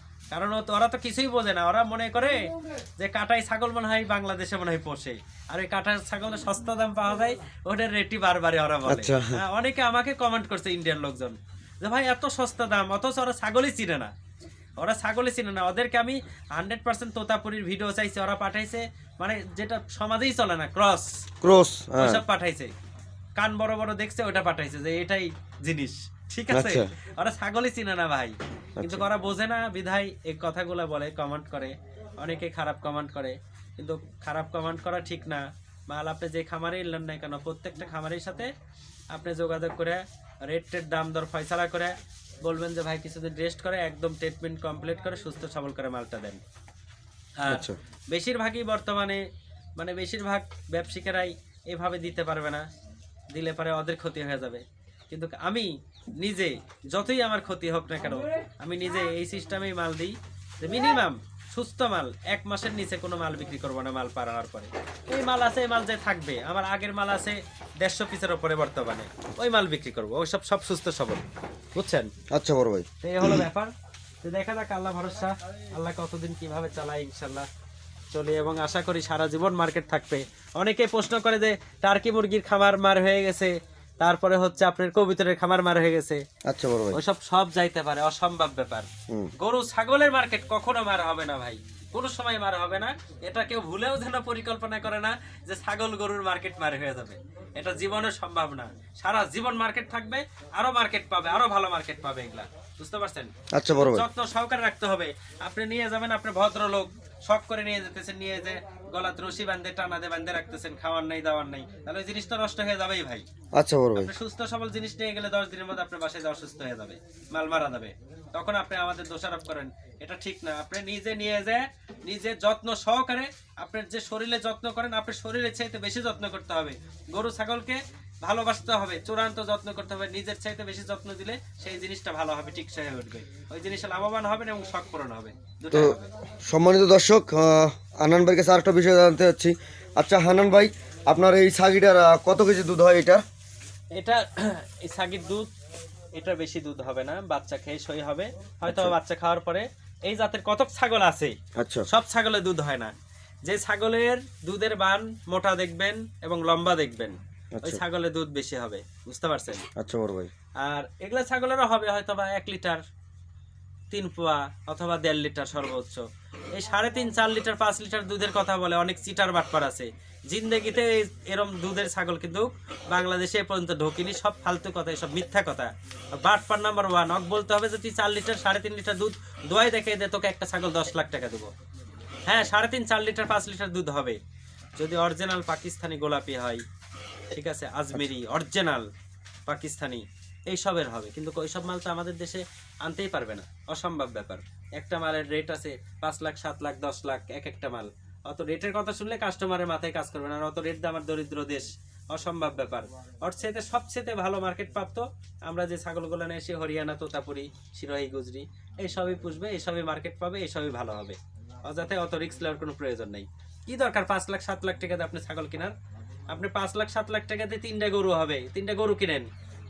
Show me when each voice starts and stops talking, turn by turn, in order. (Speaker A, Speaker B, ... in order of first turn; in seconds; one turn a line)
Speaker A: 0.3-14.1
Speaker B: 8.9-9.4
Speaker A: 14.8-21.3
Speaker B: 21.4-22.2
Speaker A: 22.0-22.7
Speaker A: 23.4-38.5
Speaker B: 26.5-26.9
Speaker B: 28.8-29.1
Speaker A: 39.1-46.4
Speaker A: 47.4-49.2
Speaker B: 47.5-47.8
Speaker A: 49.8-52.6
Speaker A: 53.3-71.2
Speaker A: 71.8-72.1
Speaker B: 72.3-73.4
Speaker A: 73.0-73.7
Speaker A: 74.2-77.5
Speaker A: 78.1-86.2
Speaker B: 86.5-87.0
Speaker A: 86.9-113.2
Speaker B: 103.5-104.1
Speaker B: 113.5-114.1
Speaker A: 114.0-136.1
Speaker B: 135.7-143.2
Speaker A: 143.9-145.5
Speaker A: 146.1-151.4
Speaker B: 148.7-149.0
Speaker B: 151.6-151.9
Speaker A: 151.9-152.9
Speaker A: 153.5-159.7
Speaker B: 157.6-157.8
Speaker B: 159.8-160.3
Speaker A: 160.6-162.8
Speaker A: 163.9-181.5
Speaker A: 182.3-184.2
Speaker A: 184.8-186.6
Speaker A: 187.3-188.9
Speaker A: 189.5-215.7
Speaker A: 216.3-219.3